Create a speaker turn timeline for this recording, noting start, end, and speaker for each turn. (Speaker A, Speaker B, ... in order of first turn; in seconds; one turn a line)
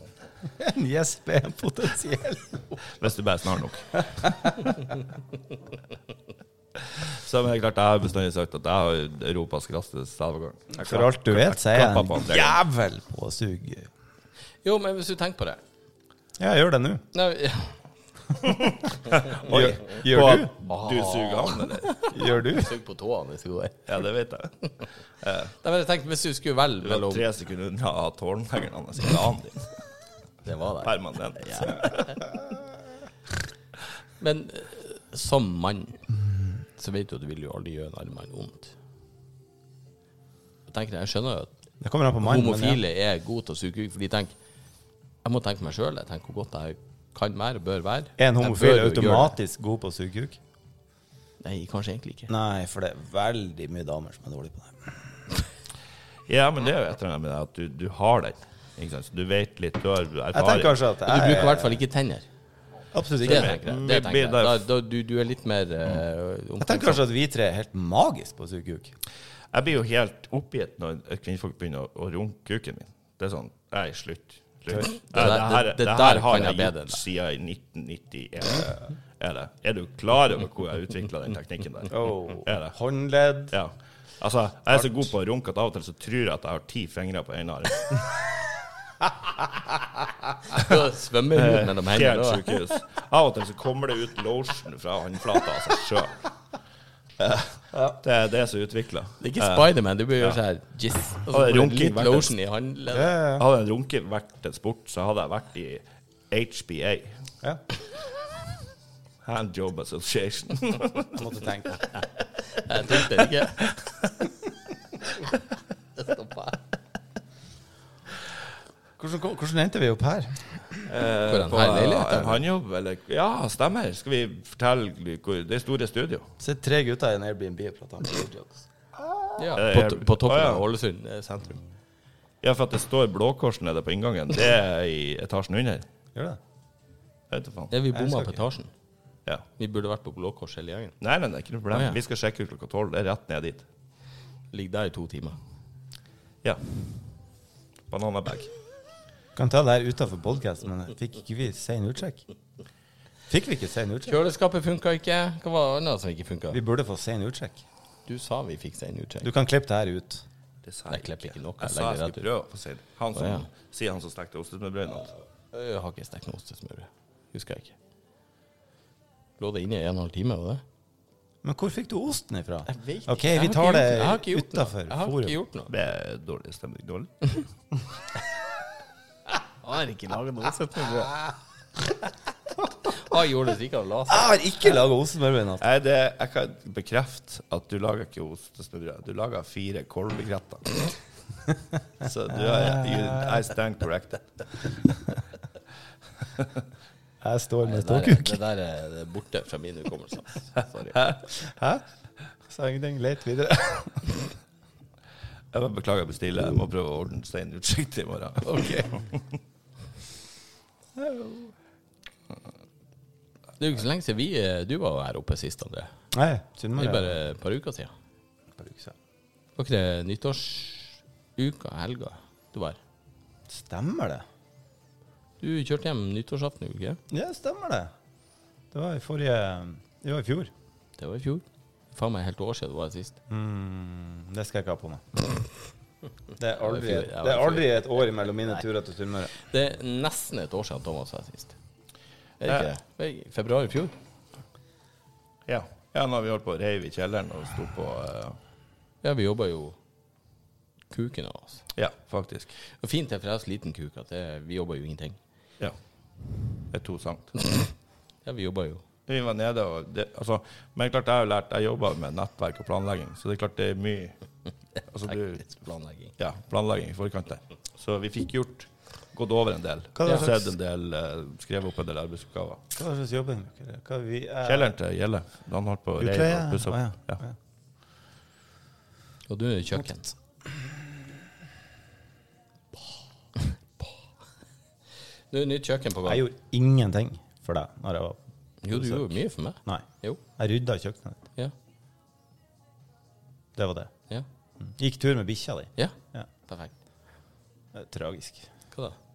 Speaker A: 0.5-2.8
Speaker B: 2.9-4.6
Speaker A: 4.2-4.7
Speaker B: 6.8-12.6
Speaker A: 10.8-13.9
Speaker C: 14.6-15.6
Speaker A: 16.4-17.0
Speaker C: 17.1-17.8
Speaker B: 18.7-22.0
Speaker A: 19.4-20.5
Speaker C: 20.6-23.9
Speaker A: 22.1-22.8
Speaker B: 23.9-24.5
Speaker B: 25.2-25.5
Speaker C: 25.6-27.2
Speaker B: 26.8-29.7
Speaker C: 30.4-32.2
Speaker B: 30.8-32.1
Speaker C: 34.2-36.0
Speaker C: 36.8-38.7
Speaker C: 40.7-41.5
Speaker A: 41.8-42.8
Speaker C: 42.2-44.3
Speaker C: 45.2-49.3
Speaker A: 48.2-50.4
Speaker C: 51.4-52.3
Speaker A: 52.3-55.0
Speaker B: 56.3-60.8
Speaker A: 60.3-61.8
Speaker C: 61.0-62.2
Speaker A: 62.9-63.6
Speaker B: 63.2-64.6
Speaker C: 63.2-67.0
Speaker A: 66.6-68.9
Speaker B: 69.5-82.7
Speaker C: 75.1-77.0
Speaker A: 81.9-83.6
Speaker B: 83.5-88.0
Speaker C: 90.5-92.7
Speaker B: 91.3-96.3
Speaker B: 97.2-100.4
Speaker C: 99.2-103.2
Speaker B: 101.3-102.3
Speaker A: 102.9-103.4
Speaker B: 103.3-107.2
Speaker B: 109.2-111.2
Speaker A: 111.1-111.8
Speaker C: 112.4-113.7
Speaker C: 116.0-116.5
Speaker A: 119.0-120.8
Speaker B: 120.8-126.3
Speaker C: 121.3-122.4
Speaker A: 126.4-129.4
Speaker C: 129.4-131.6
Speaker B: 129.5-130.7
Speaker B: 132.4-135.8
Speaker A: 136.1-136.4
Speaker B: 137.3-137.7
Speaker C: 137.7-138.7
Speaker A: 137.9-138.4
Speaker C: 139.6-140.9
Speaker B: 141.0-143.6
Speaker C: 141.7-142.0
Speaker C: 144.5-145.4
Speaker B: 146.4-146.7
Speaker B: 147.9-148.5
Speaker A: 149.3-152.2
Speaker A: 153.3-154.2
Speaker C: 154.1-156.6
Speaker A: 156.5-157.6
Speaker C: 158.1-159.3
Speaker A: 159.2-160.2
Speaker B: 160.6-165.1
Speaker C: 160.9-162.2
Speaker C: 163.2-163.5
Speaker C: 165.5-167.8
Speaker C: 169.4-170.6
Speaker A: 171.4-175.4
Speaker C: 172.7-175.7
Speaker B: 175.7-177.4
Speaker C: 179.6-181.2
Speaker C: 182.9-184.4
Speaker A: 184.1-185.6
Speaker B: 185.6-190.8
Speaker B: 192.0-194.7
Speaker A: 192.3-193.4
Speaker A: 197.2-198.4
Speaker C: 197.6-201.0
Speaker A: 201.4-201.8
Speaker A: 202.5-204.2
Speaker B: 205.5-208.8
Speaker A: 208.4-208.9
Speaker A: 210.9-211.5
Speaker C: 213.6-215.9
Speaker A: 216.1-217.2
Speaker C: 216.8-217.9
Speaker A: 218.6-218.9
Speaker C: 219.6-222.8
Speaker A: 223.5-224.2
Speaker C: 225.4-227.0
Speaker A: 227.1-227.9
Speaker A: 228.7-230.5
Speaker C: 231.0-233.2
Speaker A: 233.3-235.0
Speaker A: 236.4-239.3
Speaker C: 236.5-237.9
Speaker C: 239.4-241.6
Speaker C: 242.4-243.9
Speaker B: 245.5-248.4
Speaker C: 249.0-249.8
Speaker C: 250.9-251.6
Speaker B: 251.8-252.5
Speaker C: 252.6-255.2
Speaker B: 256.7-257.4
Speaker C: 258.2-258.8
Speaker B: 259.1-264.1
Speaker B: 264.9-265.6
Speaker C: 265.4-266.1
Speaker B: 266.2-272.6
Speaker A: 270.0-270.5
Speaker A: 272.8-274.7
Speaker B: 274.4-277.2
Speaker A: 276.0-277.3
Speaker C: 279.3-280.1
Speaker C: 285.3-286.2
Speaker A: 286.1-288.2
Speaker C: 288.6-290.2
Speaker A: 288.7-289.1
Speaker A: 290.4-291.2
Speaker A: 293.6-293.9
Speaker A: 294.6-296.3
Speaker C: 296.4-296.7
Speaker A: 297.7-298.5
Speaker C: 298.7-299.0